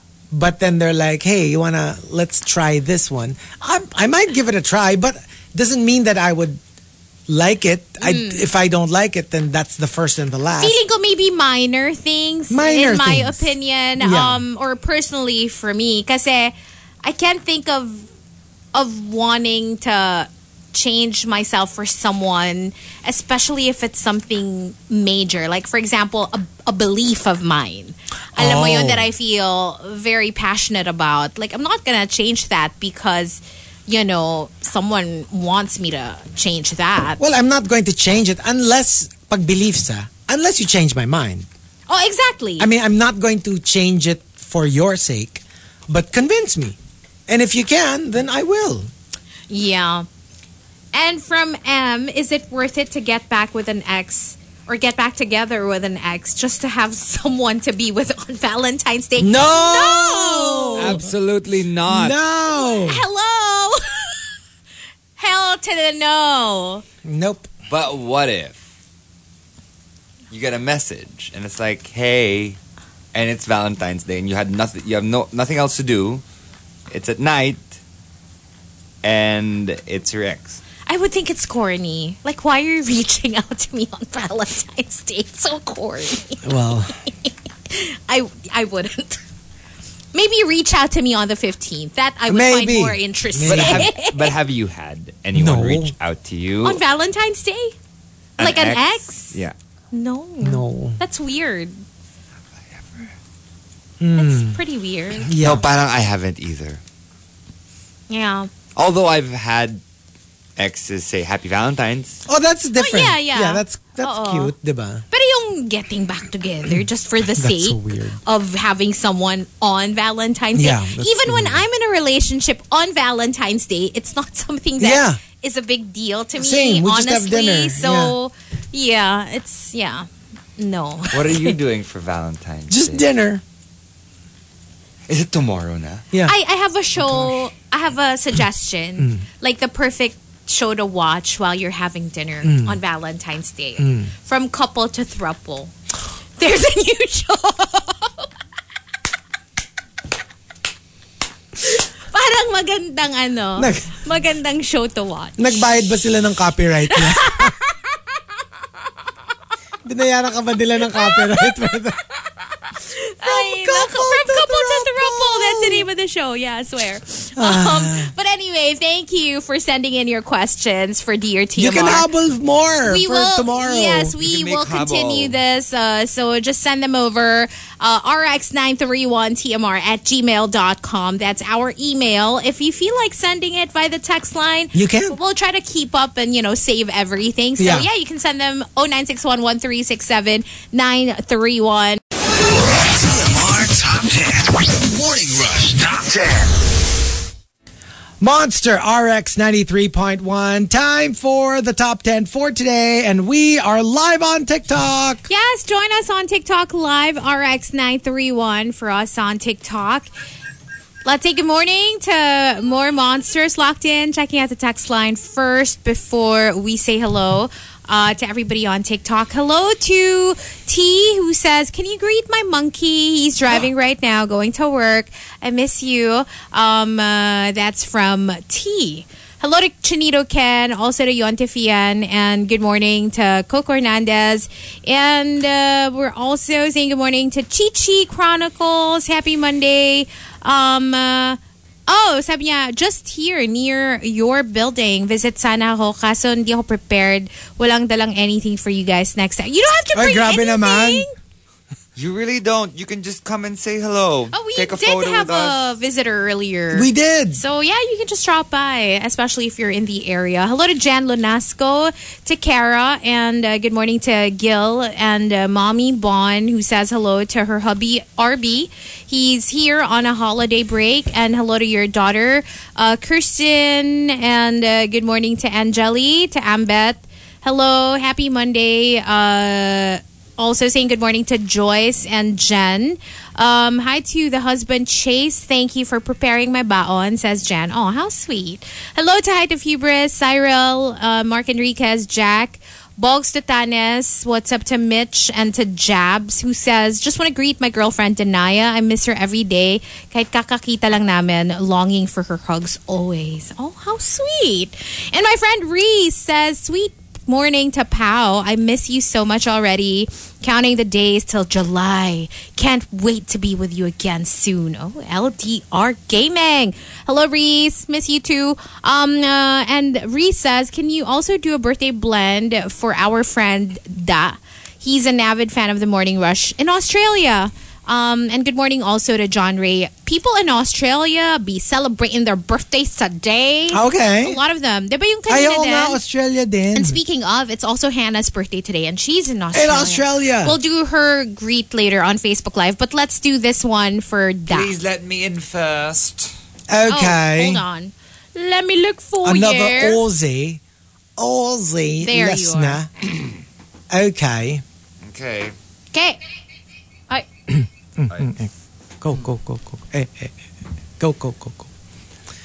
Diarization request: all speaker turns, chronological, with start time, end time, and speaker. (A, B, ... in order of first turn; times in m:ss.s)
0:00.3-0:06.6 A
0:07.3-0:10.8 A
0:08.0-0:08.5 B
0:10.6-0:18.1 B
0:12.5-0:14.4 A
0:18.7-0:37.2 B
0:28.4-0:29.1 A
0:37.2-0:41.5 A
0:41.9-0:42.7 B
0:42.6-0:46.8 A
0:47.3-0:48.9 A
0:49.5-0:50.1 B
0:50.9-1:01.0 B
0:59.2-1:01.1 A
1:00.8-1:02.2 C
1:01.9-1:03.0 A
1:02.5-1:04.2 B
1:05.2-1:06.8 B
1:07.0-1:07.5 A
1:07.7-1:08.6 C
1:10.3-1:12.6 C
1:13.1-1:16.2 C
1:16.9-1:17.7 C
1:19.0-1:20.6 C
1:20.9-1:26.5 B
1:26.4-1:26.9 A
1:27.1-1:29.2 B
1:30.1-1:34.3 B
1:32.3-1:33.9 A
1:33.4-1:36.8 C
1:35.4-1:35.9 A
1:36.6-1:37.7 B
1:38.4-1:39.5 C
1:38.4-1:39.4 B
1:39.9-1:41.8 B
1:40.4-1:41.0 A
1:44.0-1:44.6 A
1:44.1-1:45.3 B
1:45.2-1:45.6 A
1:45.4-1:46.8 C
1:48.1-1:48.5 B
1:48.8-1:49.8 C
1:50.6-1:52.2 C
1:52.3-1:55.1 A
1:52.8-1:54.5 B
1:55.1-2:11.6 B
1:57.4-1:58.2 A
2:00.6-2:01.6 A
2:04.8-2:05.2 A
2:06.4-2:08.1 A
2:11.1-2:13.0 C
2:12.7-2:13.4 A
2:15.1-2:16.1 C
2:16.2-2:25.7 B
2:17.0-2:17.3 A
2:19.0-2:19.2 A
2:22.4-2:22.8 A
2:23.8-2:24.1 A
2:26.4-2:28.3 B
2:31.6-2:35.6 B
2:33.6-2:34.0 A
2:35.4-2:37.6 A
2:36.9-2:37.8 B
2:39.8-2:42.0 A
2:40.9-2:41.6 B
2:42.8-2:52.1 B
2:43.2-2:45.9 A
2:47.4-2:48.1 A
2:51.6-2:54.1 A
2:52.9-3:12.0 B
2:54.2-2:55.4 C
3:04.7-3:05.2 A
3:07.6-3:07.9 A
3:12.3-3:16.6 D
3:18.2-3:25.2 A
3:25.3-3:30.1 B
3:31.0-4:11.1 B
4:09.9-4:11.1 A
4:12.0-4:15.6 C
4:14.3-5:36.0 B
4:16.7-4:17.4 A
5:33.7-5:34.4 A
5:35.3-5:37.0 A
5:36.7-5:44.7 B
5:39.5-5:40.6 A
5:44.5-5:46.3 C
5:46.7-5:47.6 A
5:46.9-5:50.0 B
5:49.2-5:50.6 A
5:51.2-5:52.9 A
5:52.0-5:52.8 B
5:53.9-5:54.6 A
5:55.0-5:55.5 C
5:55.9-5:56.2 B
5:57.5-6:00.3 A
6:01.0-6:01.7 A